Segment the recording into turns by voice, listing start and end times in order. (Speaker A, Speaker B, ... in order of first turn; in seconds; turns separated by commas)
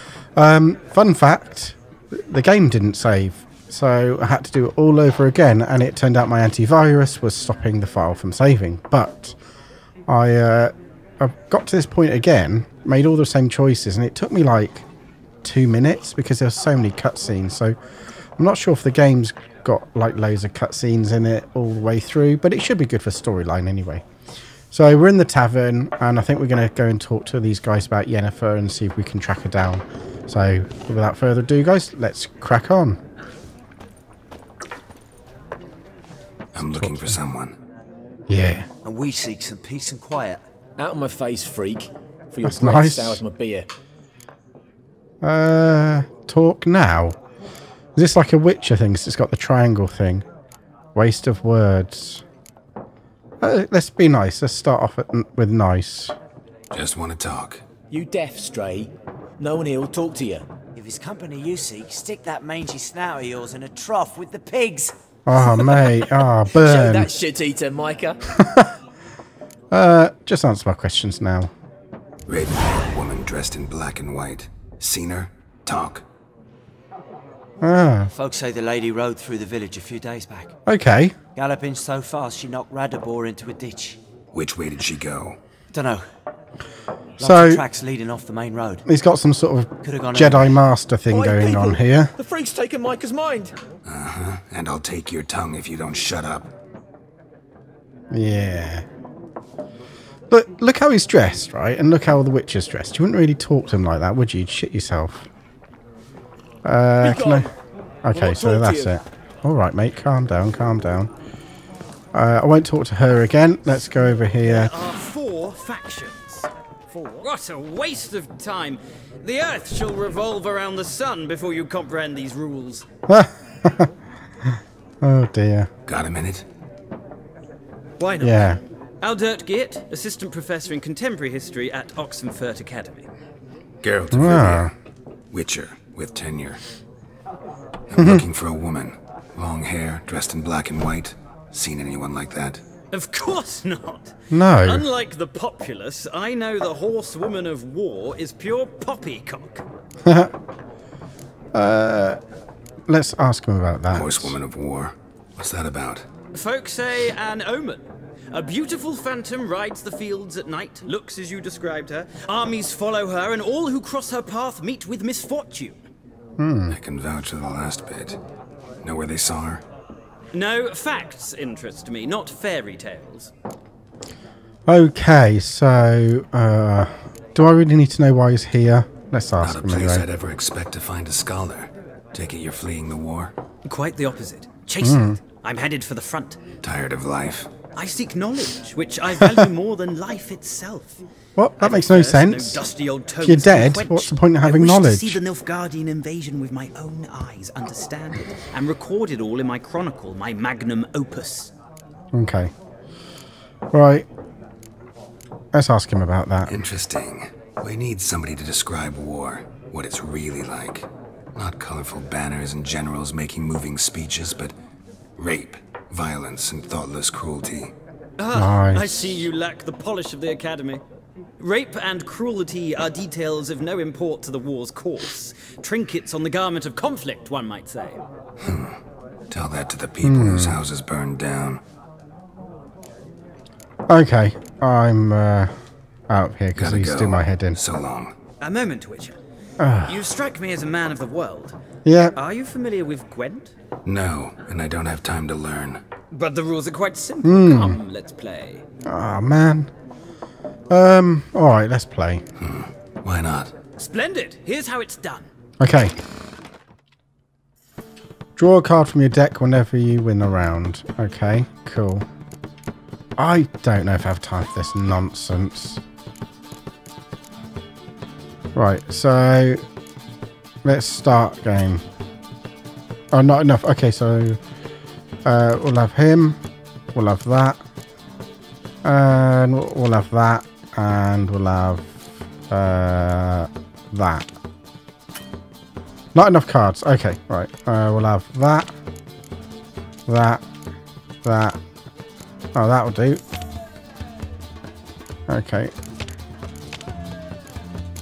Speaker A: 0.4-9.3, Speaker A: 10.1-14.8, Speaker A: 15.4-17.8, Speaker A: 18.4-24.0, Speaker A: 24.7-33.0, Speaker B: 36.5-37.6, Speaker A: 36.6-37.2, Speaker A: 38.3-38.7, Speaker C: 38.9-40.4, Speaker D: 40.8-43.7, Speaker A: 42.4-43.2, Speaker A: 45.2-47.2, Speaker A: 48.0-50.2, Speaker A: 51.0-52.2, Speaker A: 53.4-56.1, Speaker B: 56.7-57.6, Speaker D: 57.9-60.5, Speaker C: 60.8-64.9, Speaker A: 65.3-67.1, Speaker D: 65.5-66.0, Speaker D: 66.5-68.2, Speaker A: 68.4-68.7, Speaker A: 69.7-71.5, Speaker B: 72.3-76.0, Speaker A: 77.6-78.1, Speaker C: 78.1-80.5, Speaker A: 80.7-81.2, Speaker C: 81.4-84.0, Speaker B: 84.3-85.4, Speaker C: 85.7-86.0, Speaker C: 87.2-88.8, Speaker A: 87.2-87.6, Speaker A: 88.9-92.1, Speaker C: 89.8-90.6, Speaker D: 91.1-93.5, Speaker B: 93.8-96.5, Speaker A: 98.1-98.8, Speaker A: 100.3-105.3, Speaker A: 106.7-107.5, Speaker D: 107.0-107.5, Speaker A: 108.0-111.1, Speaker D: 108.1-109.0, Speaker A: 112.1-114.7, Speaker E: 114.5-122.9, Speaker A: 123.1-123.9, Speaker A: 125.0-125.7, Speaker B: 125.9-126.5, Speaker E: 128.0-133.1, Speaker A: 128.2-128.6, Speaker B: 133.8-134.7, Speaker A: 134.1-134.7, Speaker B: 135.3-136.6, Speaker B: 137.9-142.7, Speaker A: 138.0-138.2, Speaker E: 142.9-149.7, Speaker A: 144.3-144.9, Speaker A: 150.1-150.3, Speaker A: 151.5-152.2, Speaker A: 152.9-154.4, Speaker B: 153.9-156.1, Speaker E: 156.3-165.8, Speaker A: 166.4-166.8, Speaker B: 166.7-168.2, Speaker B: 168.8-169.6, Speaker E: 170.3-173.3, Speaker A: 174.7-180.1, Speaker B: 179.4-183.3, Speaker E: 183.6-186.4, Speaker A: 184.8-185.2, Speaker B: 186.6-187.5, Speaker E: 187.8-191.0, Speaker A: 189.1-189.5, Speaker A: 191.4-192.7, Speaker E: 191.6-201.5, Speaker A: 193.2-195.2, Speaker A: 202.1-202.5, Speaker A: 203.7-204.1, Speaker A: 205.5-206.6, Speaker B: 206.5-214.6, Speaker B: 215.2-217.7, Speaker E: 218.2-220.8, Speaker A: 218.3-219.3, Speaker E: 221.4-228.0, Speaker B: 228.4-228.8, Speaker B: 229.3-231.6, Speaker A: 230.0-230.6, Speaker A: 233.9-235.5, Speaker A: 236.1-237.6, Speaker B: 236.6-238.2, Speaker E: 238.4-239.2, Speaker A: 239.6-240.1, Speaker E: 239.9-241.6, Speaker A: 241.8-242.2, Speaker E: 242.1-243.5, Speaker B: 243.8-245.8, Speaker E: 246.1-248.6, Speaker A: 247.2-247.8, Speaker A: 248.9-249.7, Speaker A: 250.7-252.2, Speaker B: 252.4-253.5, Speaker E: 253.8-255.3, Speaker A: 255.6-255.9, Speaker A: 258.4-262.1, Speaker A: 263.2-265.8, Speaker A: 268.6-269.6, Speaker A: 270.6-271.8, Speaker A: 273.1-274.4, Speaker A: 275.2-276.4, Speaker A: 276.9-277.6, Speaker A: 278.8-284.3, Speaker A: 286.1-288.7, Speaker A: 290.1-290.4, Speaker A: 291.2-291.6, Speaker A: 292.6-293.2, Speaker A: 295.3-295.7